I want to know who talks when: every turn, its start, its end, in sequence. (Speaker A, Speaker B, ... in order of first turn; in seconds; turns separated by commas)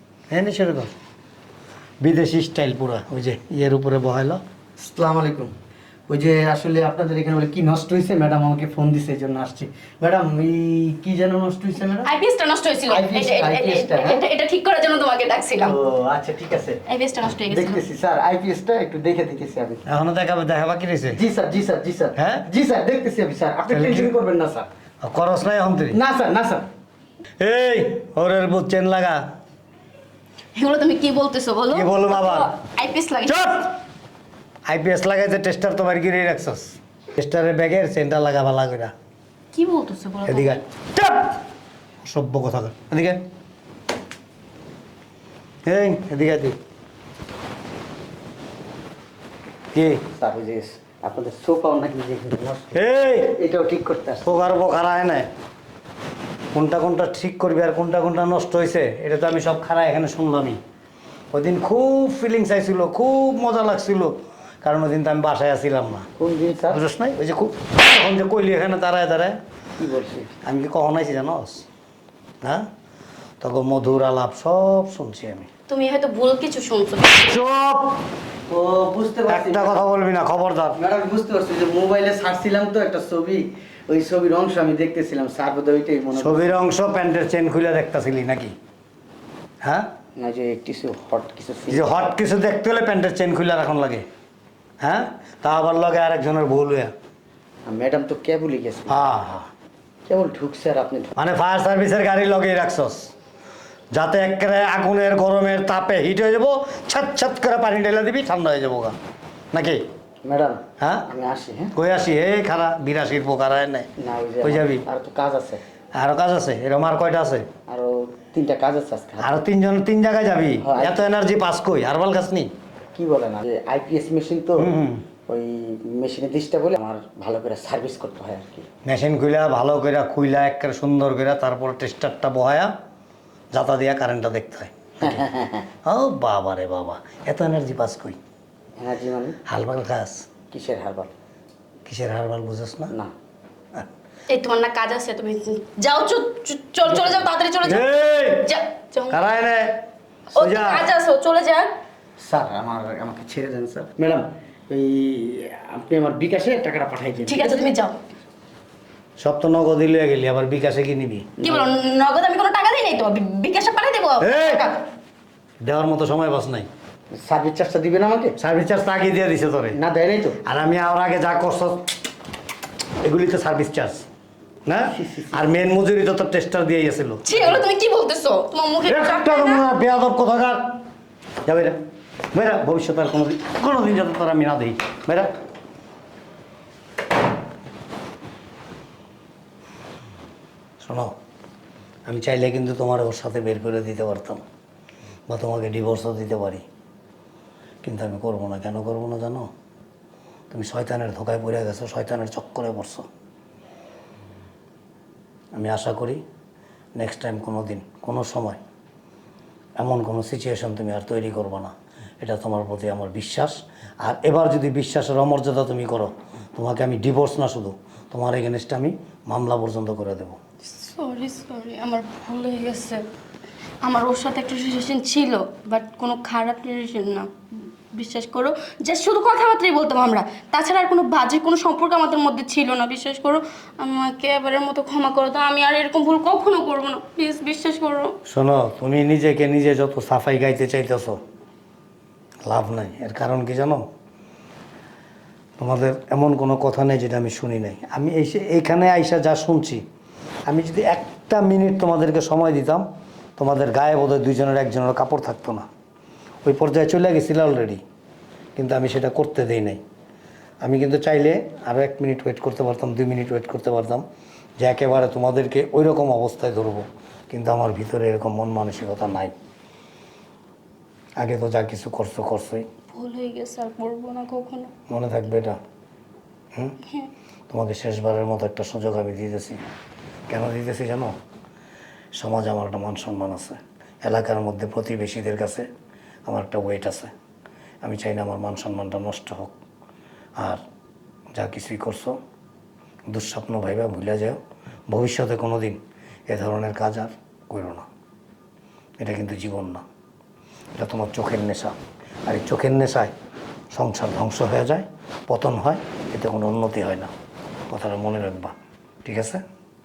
Speaker A: 0.3-0.9, Speaker A: 2.0-4.4, Speaker B: 4.8-5.5, Speaker B: 6.1-12.1, Speaker C: 11.9-15.8, Speaker B: 12.9-14.2, Speaker B: 15.6-16.8, Speaker C: 16.9-17.8, Speaker B: 17.5-19.8, Speaker A: 19.9-21.2, Speaker B: 21.1-24.7, Speaker A: 22.1-22.5, Speaker A: 23.7-24.1, Speaker A: 25.0-26.0, Speaker B: 25.9-26.7, Speaker A: 27.4-29.3, Speaker C: 30.5-33.5, Speaker A: 31.7-32.5, Speaker A: 33.2-33.7, Speaker A: 34.6-38.9, Speaker C: 39.5-40.6, Speaker A: 40.2-41.4, Speaker A: 42.0-43.2, Speaker A: 45.6-46.6, Speaker A: 49.7-50.0, Speaker B: 50.1-52.8, Speaker A: 52.7-53.4, Speaker B: 53.4-54.3, Speaker A: 54.2-55.3, Speaker A: 56.5-60.6, Speaker A: 61.3-66.1, Speaker B: 66.2-66.8, Speaker A: 66.7-69.4, Speaker B: 69.8-70.3, Speaker A: 70.4-71.7, Speaker A: 72.4-72.7, Speaker A: 73.4-75.5, Speaker C: 75.7-77.3, Speaker A: 77.2-78.0, Speaker B: 78.5-79.8, Speaker A: 79.3-80.8, Speaker B: 80.8-86.5, Speaker A: 86.2-88.5, Speaker A: 89.6-89.9, Speaker B: 90.2-91.8, Speaker A: 91.7-94.1, Speaker A: 94.8-96.9, Speaker B: 97.6-99.1, Speaker A: 98.9-99.5, Speaker B: 100.1-101.1, Speaker A: 101.2-103.1, Speaker A: 103.9-109.0, Speaker A: 109.5-109.8, Speaker B: 110.2-111.7, Speaker A: 110.8-111.1, Speaker A: 111.7-113.9, Speaker B: 114.0-115.6, Speaker A: 114.4-114.8, Speaker A: 115.9-117.5, Speaker B: 117.7-119.3, Speaker A: 119.2-122.5, Speaker B: 120.6-121.0, Speaker B: 122.9-124.7, Speaker A: 124.6-125.0, Speaker B: 125.3-128.7, Speaker A: 128.8-132.7, Speaker A: 133.5-135.2, Speaker B: 135.0-135.7, Speaker A: 135.8-138.2, Speaker B: 138.8-139.4, Speaker A: 139.4-140.3, Speaker B: 140.5-141.1, Speaker A: 141.8-142.9, Speaker C: 144.3-149.2, Speaker A: 147.6-148.5, Speaker A: 149.1-149.8, Speaker A: 150.3-150.9, Speaker C: 150.3-151.7, Speaker B: 152.2-157.7, Speaker C: 157.2-157.9, Speaker A: 159.2-161.3, Speaker B: 161.4-161.7, Speaker C: 161.4-164.8, Speaker A: 164.2-164.7, Speaker A: 165.6-166.7, Speaker B: 167.1-168.3, Speaker A: 168.4-169.8, Speaker B: 169.7-170.4, Speaker A: 170.4-171.9, Speaker A: 173.0-174.1, Speaker A: 174.7-177.2, Speaker B: 174.9-175.3, Speaker C: 177.2-179.6, Speaker A: 178.9-180.8, Speaker A: 181.4-181.8, Speaker A: 182.3-185.3, Speaker A: 190.8-191.1, Speaker A: 192.1-194.4, Speaker A: 195.3-196.6, Speaker A: 197.8-199.5, Speaker A: 200.5-203.1, Speaker A: 205.5-206.2, Speaker A: 206.9-208.6, Speaker A: 209.8-220.4, Speaker C: 220.7-223.0, Speaker C: 223.8-227.3, Speaker C: 227.9-238.2, Speaker A: 238.3-241.2, Speaker A: 242.4-243.8, Speaker A: 245.6-249.8, Speaker A: 250.5-252.8, Speaker A: 253.4-255.7, Speaker A: 256.4-257.8, Speaker A: 258.6-259.8, Speaker A: 260.6-264.0, Speaker A: 264.6-269.3, Speaker A: 271.2-272.6, Speaker C: 272.9-274.7, Speaker A: 274.9-275.6, Speaker A: 277.5-279.6, Speaker A: 280.3-281.1, Speaker A: 282.1-285.7, Speaker A: 286.2-287.1, Speaker A: 287.8-289.5, Speaker A: 291.3-292.2, Speaker A: 293.1-294.4, Speaker A: 294.9-297.9, Speaker A: 299.0-299.8, Speaker A: 300.8-303.1, Speaker A: 303.7-307.1, Speaker A: 307.7-308.5, Speaker A: 309.0-309.4